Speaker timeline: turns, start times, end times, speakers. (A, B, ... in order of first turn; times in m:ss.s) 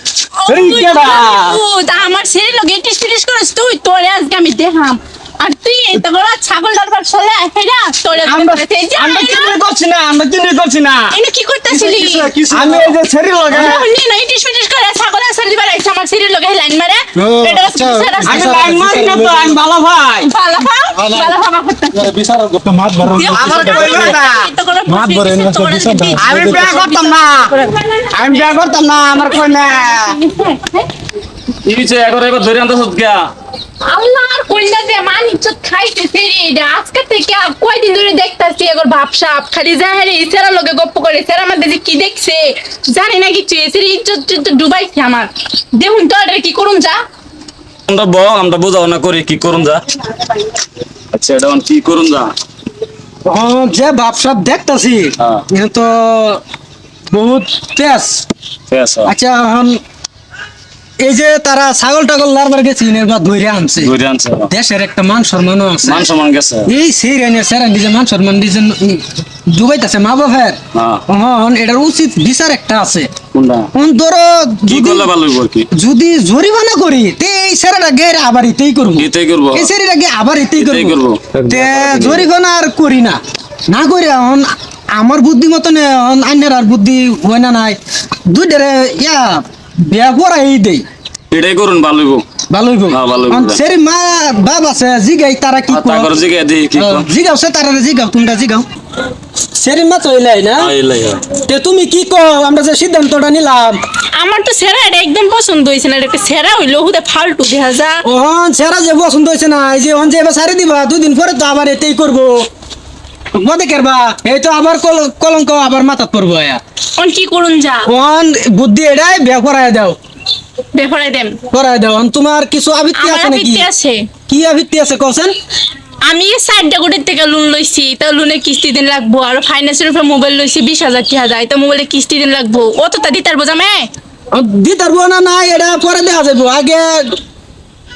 0:00.4-0:09.6 A
0:00.5-0:01.6 B
0:08.3-0:08.6 C
0:09.0-0:11.1 B
0:11.1-0:12.3 A
0:11.9-0:13.8 B
0:12.4-0:12.9 C
0:13.5-0:18.4 A
0:17.2-0:19.6 C
0:18.2-0:20.3 B
0:20.3-0:22.1 A
0:21.0-0:21.2 C
0:22.0-0:24.1 C
0:23.1-0:28.0 A
0:23.3-0:24.5 B
0:24.9-0:26.8 C
0:26.2-0:27.5 B
0:28.1-0:30.2 B
0:30.3-0:30.8 A
0:31.6-0:33.3 D
0:33.8-0:47.0 A
0:47.9-0:49.8 D
0:51.1-0:52.3 D
0:53.3-0:56.4 C
0:57.1-0:58.3 C
0:58.7-0:59.1 D
0:59.0-0:59.8 C
1:01.0-1:03.9 C
1:03.8-1:04.5 D
1:04.5-1:06.1 C
1:05.8-1:06.7 D
1:06.7-1:13.1 C
1:10.7-1:11.0 D
1:13.3-1:13.7 D
1:13.7-1:15.1 C
1:14.7-1:15.7 D
1:15.7-1:21.0 C
1:19.0-1:19.7 D
1:20.6-1:22.3 D
1:21.5-1:30.8 C
1:31.3-1:32.2 D
1:32.5-1:36.1 C
1:32.9-1:33.6 D
1:35.7-1:37.1 D
1:36.8-1:38.7 C
1:39.6-1:40.7 C
1:40.6-1:41.3 D
1:41.4-1:43.8 C
1:44.2-1:48.0 A
1:48.0-1:52.4 C
1:53.3-1:56.6 C
1:57.0-1:57.9 A
1:57.9-2:00.0 C
2:00.8-2:01.4 A
2:01.5-2:03.7 C
2:03.0-2:04.1 A
2:04.3-2:05.4 C
2:06.0-2:13.9 A
2:14.3-2:17.2 C